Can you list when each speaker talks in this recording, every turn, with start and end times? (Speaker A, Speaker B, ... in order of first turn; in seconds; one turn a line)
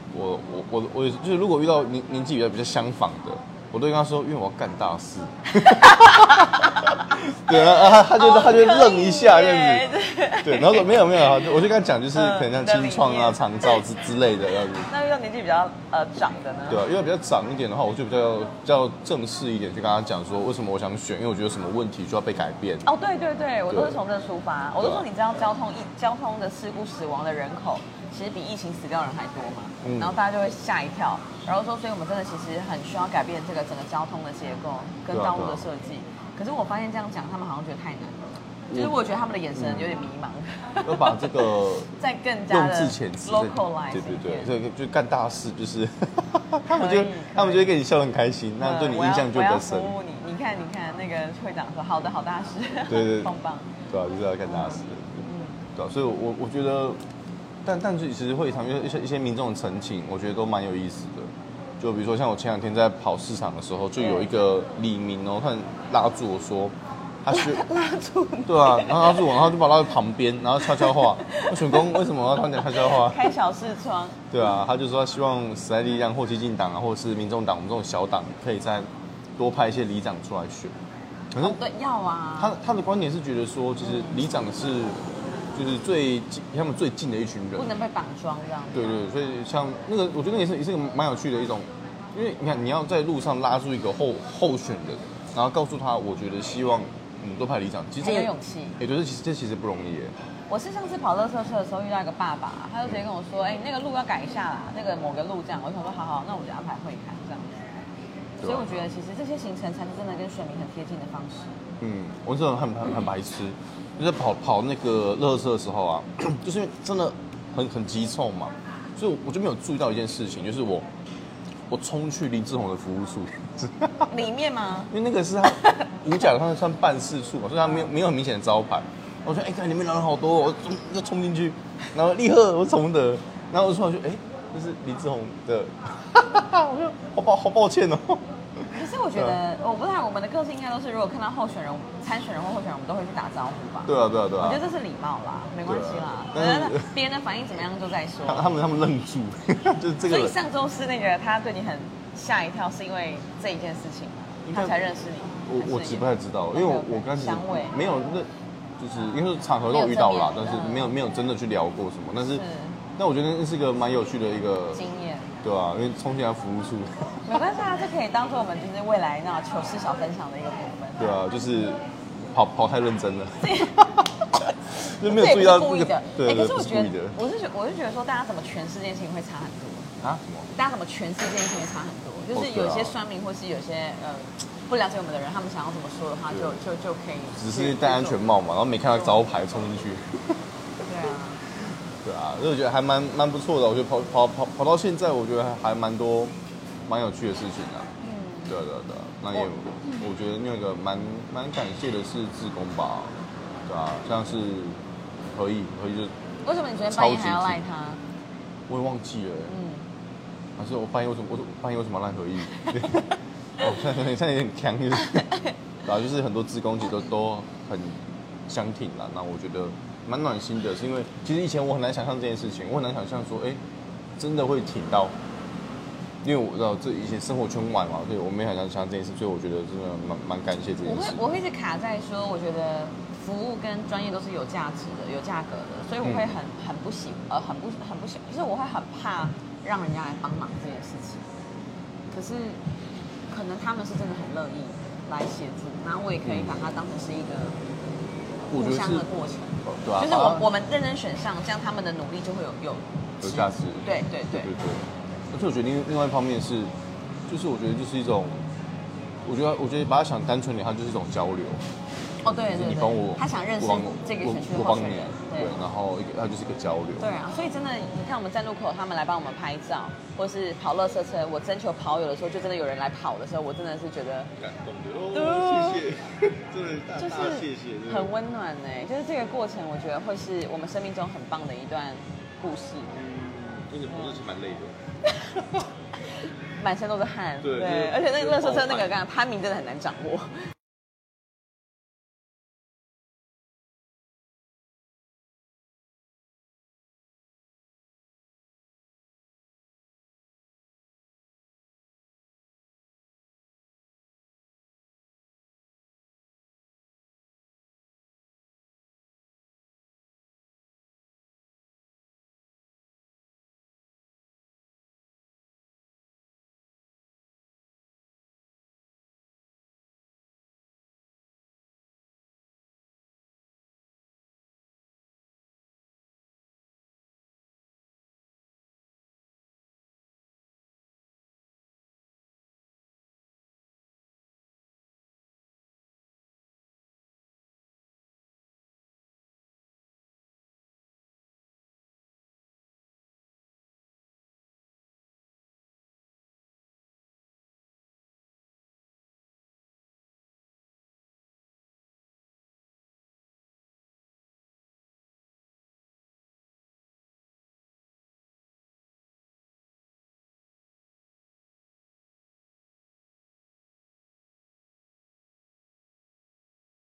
Speaker A: 0.1-9.9
Speaker B: 5.5-13.8
Speaker A: 10.4-14.9
Speaker B: 14.7-16.8
Speaker A: 16.7-22.8
Speaker B: 22.8-44.5
Speaker A: 23.7-24.0
Speaker A: 29.8-30.2
Speaker A: 35.1-35.7
Speaker A: 38.7-39.0
Speaker A: 39.5-40.0
Speaker A: 40.8-41.9
Speaker A: 42.5-50.0
Speaker B: 46.6-47.7
Speaker B: 48.6-53.8
Speaker A: 52.9-53.3
Speaker A: 53.9-57.0
Speaker B: 54.4-55.6
Speaker A: 57.6-67.6
Speaker B: 64.0-64.3
Speaker B: 67.3-69.4
Speaker A: 68.5-73.3
Speaker B: 70.6-74.3
Speaker A: 74.3-80.7
Speaker A: 81.3-81.6
Speaker B: 81.4-82.6
Speaker A: 82.4-85.0
Speaker B: 83.8-84.2
Speaker A: 85.5-87.7
Speaker B: 87.5-89.0
Speaker A: 88.7-100.1
Speaker B: 98.0-98.8
Speaker B: 100.5-107.6
Speaker A: 108.4-108.9
Speaker B: 108.4-111.6
Speaker A: 111.8-120.9
Speaker A: 121.7-124.1
Speaker B: 124.0-126.0
Speaker A: 124.9-139.4
Speaker B: 138.7-148.5
Speaker A: 143.8-144.6
Speaker A: 145.7-146.9
Speaker A: 148.2-150.3
Speaker B: 150.1-158.0
Speaker A: 154.4-154.9
Speaker A: 155.4-162.4
Speaker B: 159.7-160.9
Speaker B: 162.3-162.8
Speaker A: 163.0-164.8
Speaker B: 164.7-165.3
Speaker A: 165.4-167.3
Speaker B: 167.2-171.2
Speaker A: 171.0-177.2
Speaker B: 173.4-173.9
Speaker B: 175.0-179.9
Speaker A: 180.0-180.5
Speaker B: 180.5-188.2
Speaker A: 182.3-182.9
Speaker A: 187.4-190.4
Speaker B: 190.8-191.5
Speaker A: 192.0-196.3
Speaker A: 196.8-197.9
Speaker B: 198.0-198.6
Speaker A: 198.5-203.1
Speaker B: 199.3-200.0
Speaker A: 203.7-204.8
Speaker A: 205.3-206.1
Speaker B: 206.4-208.0
Speaker A: 206.9-207.6
Speaker A: 208.7-209.5
Speaker B: 209.5-209.8
Speaker A: 210.6-215.3
Speaker B: 212.6-213.0
Speaker B: 215.1-215.5
Speaker A: 215.8-223.6
Speaker A: 224.2-225.1
Speaker A: 226.2-231.2
Speaker B: 230.8-241.2
Speaker A: 236.0-236.3
Speaker B: 242.1-242.6
Speaker B: 243.3-247.6
Speaker A: 246.2-246.8
Speaker A: 248.5-249.1
Speaker B: 248.5-254.5
Speaker A: 249.6-250.4
Speaker A: 253.2-256.7
Speaker A: 257.3-258.4
Speaker A: 259.2-261.6
Speaker B: 262.2-265.6
Speaker A: 262.3-267.1
Speaker B: 267.0-274.3
Speaker A: 274.4-278.1
Speaker B: 275.1-275.8
Speaker B: 277.0-283.0
Speaker A: 282.9-284.8
Speaker B: 286.2-290.5
Speaker A: 287.4-289.0